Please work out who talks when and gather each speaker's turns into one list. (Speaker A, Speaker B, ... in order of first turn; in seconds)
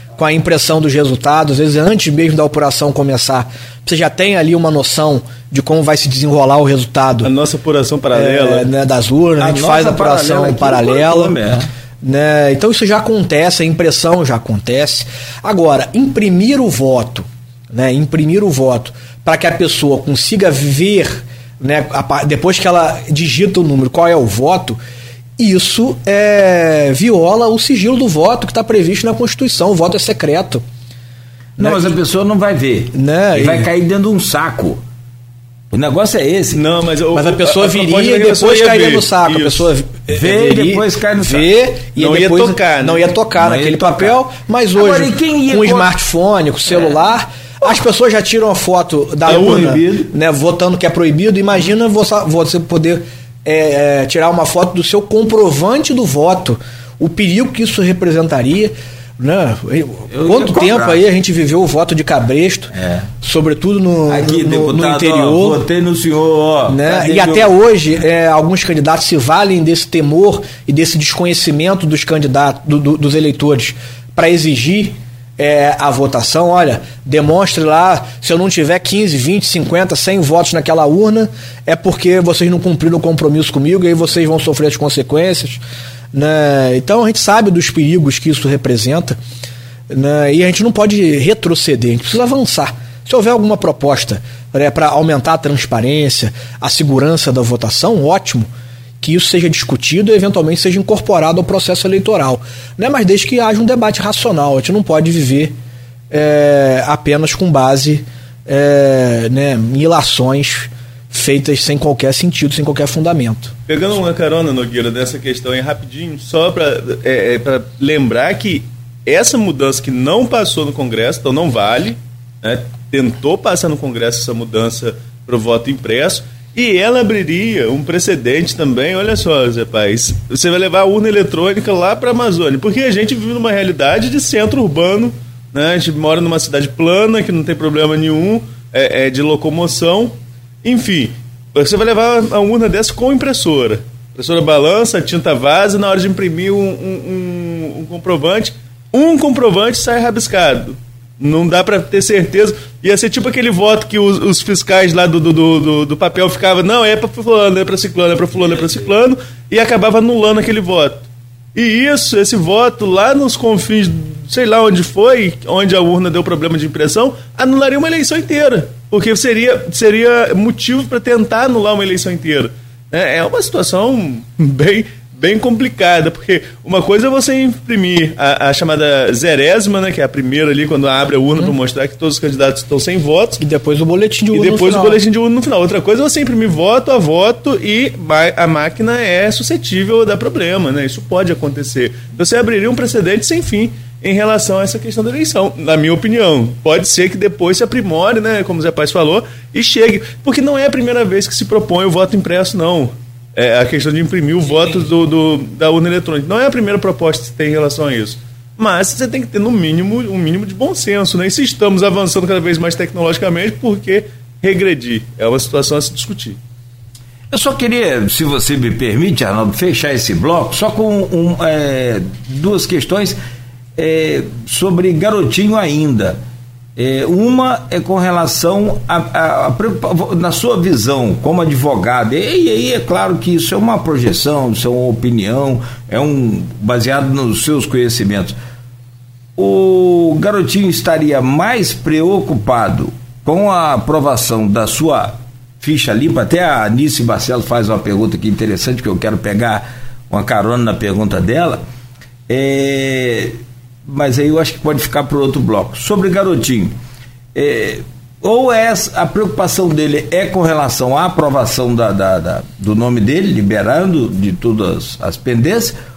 Speaker A: 0.2-7.3, 8.1-11.3, 12.0-24.8, 25.4-30.6, 31.6-32.0, 32.9-33.7, 37.1-65.6, 66.7-85.6, 86.1-89.2, 89.9-98.5, 99.0-105.5, 106.1-113.5, 183.4-185.0
Speaker B: 7.2-8.7, 36.5-39.7, 42.0-43.1, 49.3-49.7, 113.7-183.4, 184.3-216.4
Speaker C: 9.4-11.7, 31.6-34.8, 35.7-36.6, 40.1-41.5, 43.4-44.2, 44.8-45.9, 49.3-50.1, 60.1-61.0, 62.7-63.1, 64.1-67.5, 217.3-223.2, 223.8-226.2, 226.8-238.4, 239.4-251.6, 252.3-256.8, 257.4-265.8